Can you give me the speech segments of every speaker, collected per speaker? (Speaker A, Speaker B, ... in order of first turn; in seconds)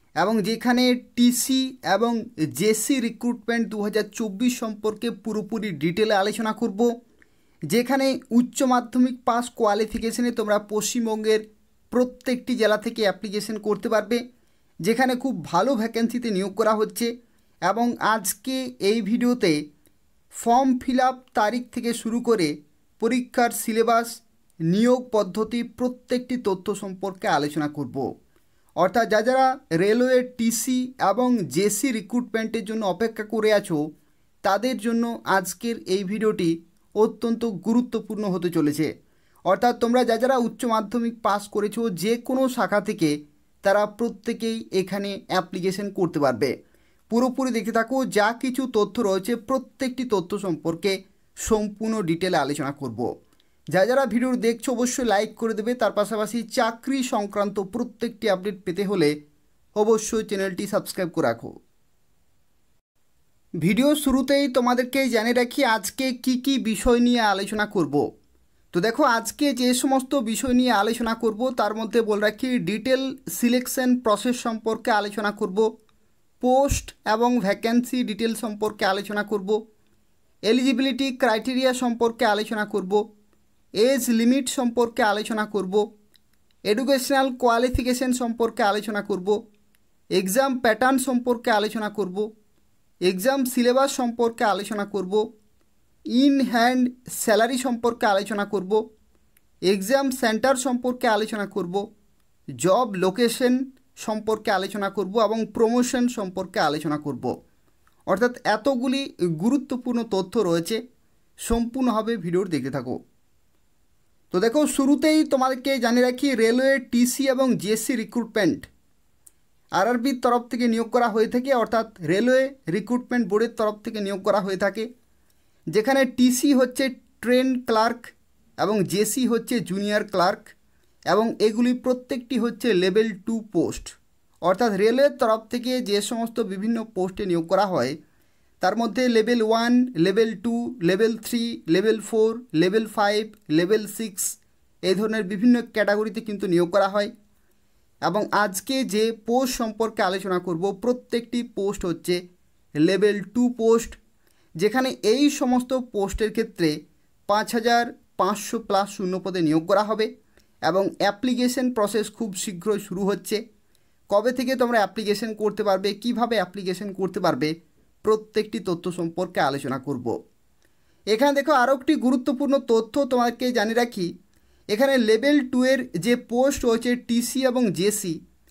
Speaker A: 0.2-6.9, 7.7-14.2, 14.8-17.1, 17.7-19.6, 20.3-28.1, 28.8-33.8, 34.4-38.9, 39.5-46.5, 47.1-53.1, 53.7-59.1, 59.8-61.5, 63.6-68.1, 68.7-75.7, 76.4-79.6, 80.5-83.0, 83.8-85.8, 86.7-89.4, 90.2-92.3, 93.1-95.2, 96.2-98.8, 99.7-101.8, 102.6-107.3, 108.1-110.8, 111.4-113.0, 114.3-118.7, 119.8-124.9, 125.7-130.5, 131.1-138.0, 138.6-147.1, 148.1-152.2, 152.8-154.0, 154.6-156.7, 157.3-160.1, 160.7-163.4, 164.1-167.5, 168.0-170.1, 171.1-174.1, 174.7-178.2